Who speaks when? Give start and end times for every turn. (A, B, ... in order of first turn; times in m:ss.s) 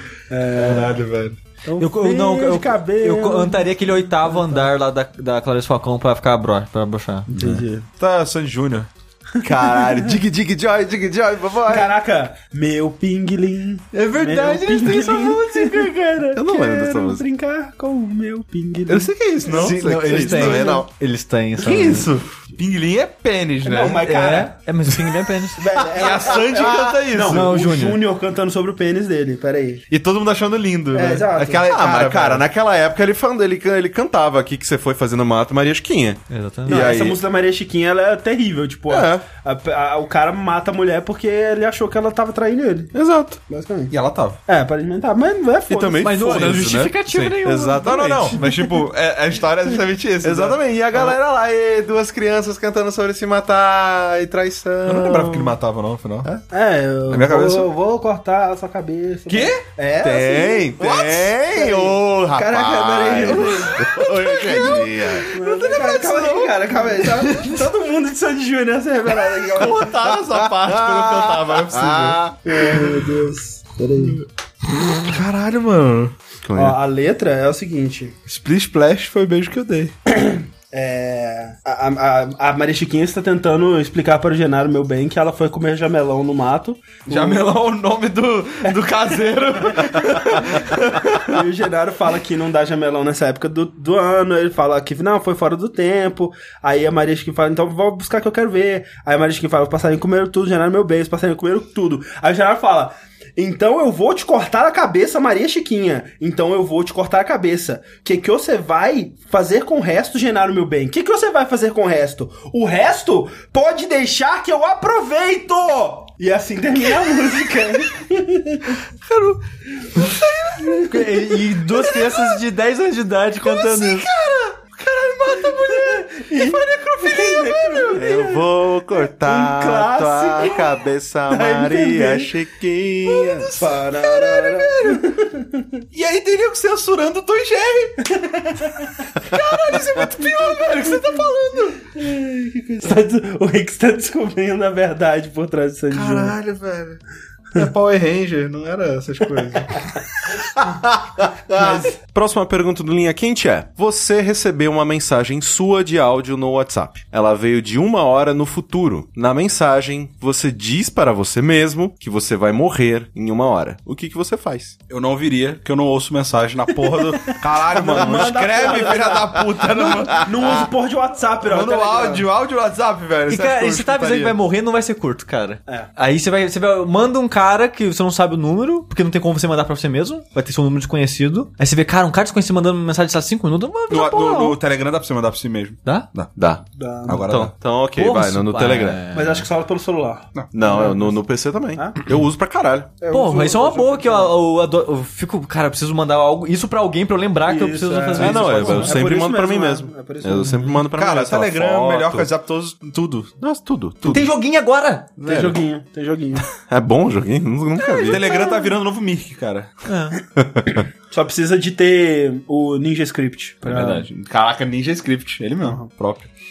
0:00.3-0:01.0 A
0:00.5-0:01.4 B
0:01.6-0:03.7 A
0:01.8-0:07.3 C
0:04.3-0:04.7 A
0:07.3-0:07.8 A
0:07.3-0:08.9 B
0:09.4-0:11.9 D
0:09.6-0:10.1 A
0:11.6-0:19.1 A
0:14.0-0:16.0 C
0:16.3-0:17.2 D
0:18.9-0:20.6 B
0:19.5-0:20.9 D
0:19.5-0:22.1 C
0:21.6-0:24.1 B
0:23.6-0:24.5 A
0:24.0-0:25.8 C
0:25.6-0:29.8 A
0:25.9-0:27.5 B
0:26.5-0:27.0 D
0:27.2-0:28.0 C
0:29.9-0:32.4 B
0:30.9-0:31.7 A
0:31.6-0:37.2 D
0:36.3-0:37.0 C
0:36.7-0:42.9 A
0:38.9-0:39.2 D
0:42.9-0:43.4 D
0:43.5-0:43.9 A
0:43.9-0:44.4 B
0:44.4-0:46.1 A
0:45.7-0:46.9 D
0:46.0-0:48.3 C
0:46.5-0:51.2 B
0:47.5-0:48.4 D
0:50.2-0:55.5 D
0:54.8-0:56.3 B
0:56.5-1:03.9 A
0:57.1-0:57.7 B
0:59.3-0:59.6 B
1:00.0-1:05.3 D
1:00.8-1:01.3 B
1:03.4-1:07.5 B
1:04.5-1:09.9 A
1:09.3-1:13.0 B
1:09.6-1:12.4 D
1:12.4-1:14.2 A
1:14.9-1:16.1 B
1:16.4-1:16.8 D
1:16.6-1:18.2 A
1:18.3-1:19.9 B
1:20.1-1:27.4 A
1:27.1-1:31.4 B
1:29.3-1:58.8 A
1:59.0-1:59.4 B
1:59.9-2:01.4 A
2:00.0-2:00.8 B
2:00.8-2:04.1 C
2:01.9-2:02.2 B
2:03.4-2:08.1 B
2:05.5-2:12.3 A
2:07.9-2:13.5 D
2:13.1-2:15.1 B
2:13.5-2:15.8 A
2:15.9-2:18.0 B
2:18.0-2:19.1 A
2:19.2-2:21.8 B
2:21.9-2:26.3 A
2:25.9-2:27.0 B
2:27.5-2:29.9 B
2:31.5-2:44.8 D
2:31.5-2:31.9 A
2:44.9-2:50.7 B
2:46.9-2:52.2 A
2:50.1-2:50.5 D
2:51.4-2:54.4 B
2:53.3-3:04.6 C
3:03.9-3:06.3 B
3:06.4-3:09.0 D
3:06.8-3:07.3 A
3:07.0-3:07.5 B
3:08.0-3:09.5 C
3:09.1-3:11.1 A
3:10.5-3:12.9 D
3:13.0-3:14.3 A
3:13.1-3:19.0 C
3:17.4-3:20.8 A
3:18.2-3:22.3 D
3:20.9-3:23.4 B
3:23.4-3:24.3 D
3:24.1-3:25.1 C
3:25.2-3:26.4 A
3:25.2-3:25.6 D
3:26.6-3:28.2 D
3:27.8-3:28.6 C
3:28.0-3:29.7 B
3:29.9-3:30.2 C
3:30.4-3:30.8 D
3:31.1-3:34.0 A
3:33.6-3:36.3 B
3:35.6-3:35.9 A